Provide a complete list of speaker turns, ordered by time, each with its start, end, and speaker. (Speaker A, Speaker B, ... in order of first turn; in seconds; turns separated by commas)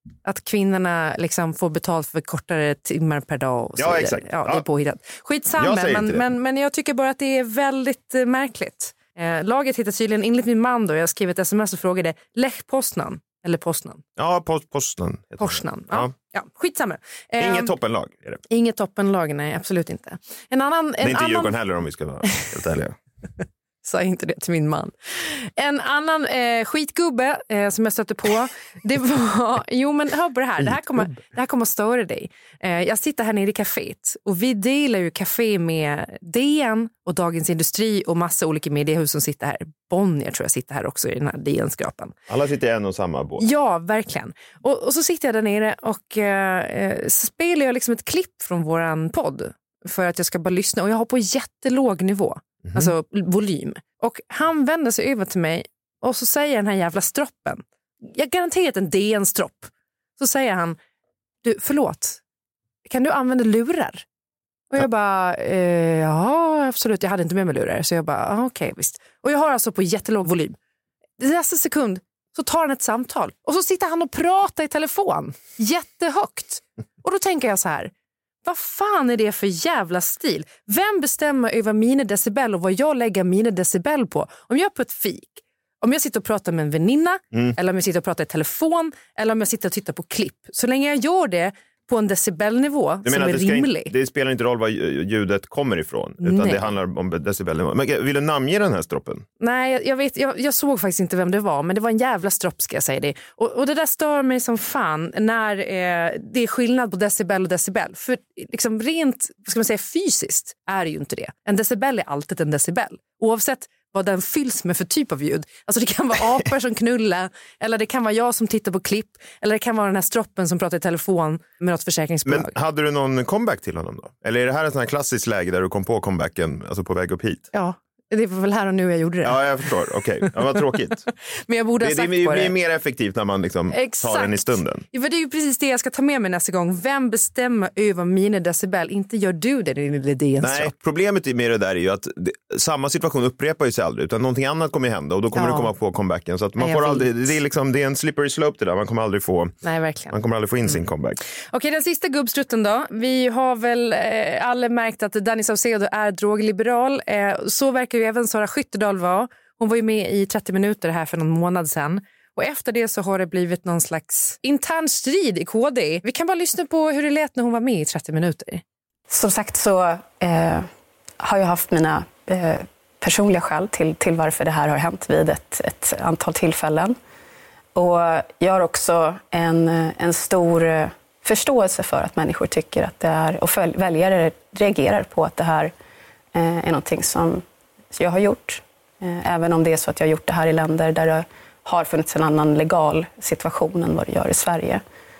Speaker A: 0.2-14.0, Speaker B: 3.8-4.6, Speaker B: 5.6-6.2, Speaker B: 14.2-16.1, Speaker A: 15.4-17.7, Speaker B: 17.4-18.4, Speaker A: 18.5-21.5, Speaker B: 21.0-22.9, Speaker A: 23.8-42.1, Speaker B: 42.3-43.5, Speaker A: 43.4-60.8, Speaker B: 52.6-52.9, Speaker A: 61.4-62.2, Speaker A: 62.8-64.0, Speaker A: 64.7-70.6, Speaker A: 71.2-77.9, Speaker A: 78.4-93.9, Speaker B: 93.0-99.2, Speaker A: 96.2-96.7, Speaker A: 99.4-122.5, Speaker B: 122.2-127.5, Speaker A: 127.5-129.7, Speaker B: 129.2-131.1, Speaker A: 131.5-132.5, Speaker B: 131.8-134.8, Speaker A: 133.7-140.7, Speaker B: 140.4-149.6, Speaker A: 145.3-145.7, Speaker A: 146.6-147.1, Speaker A: 149.6-150.2, Speaker B: 150.1-151.2, Speaker A: 150.7-168.6, Speaker C: 169.1-170.7, Speaker C: 171.2-176.9, Speaker C: 177.7-185.7, Speaker C: 186.3-187.4, Speaker C: 187.9-194.8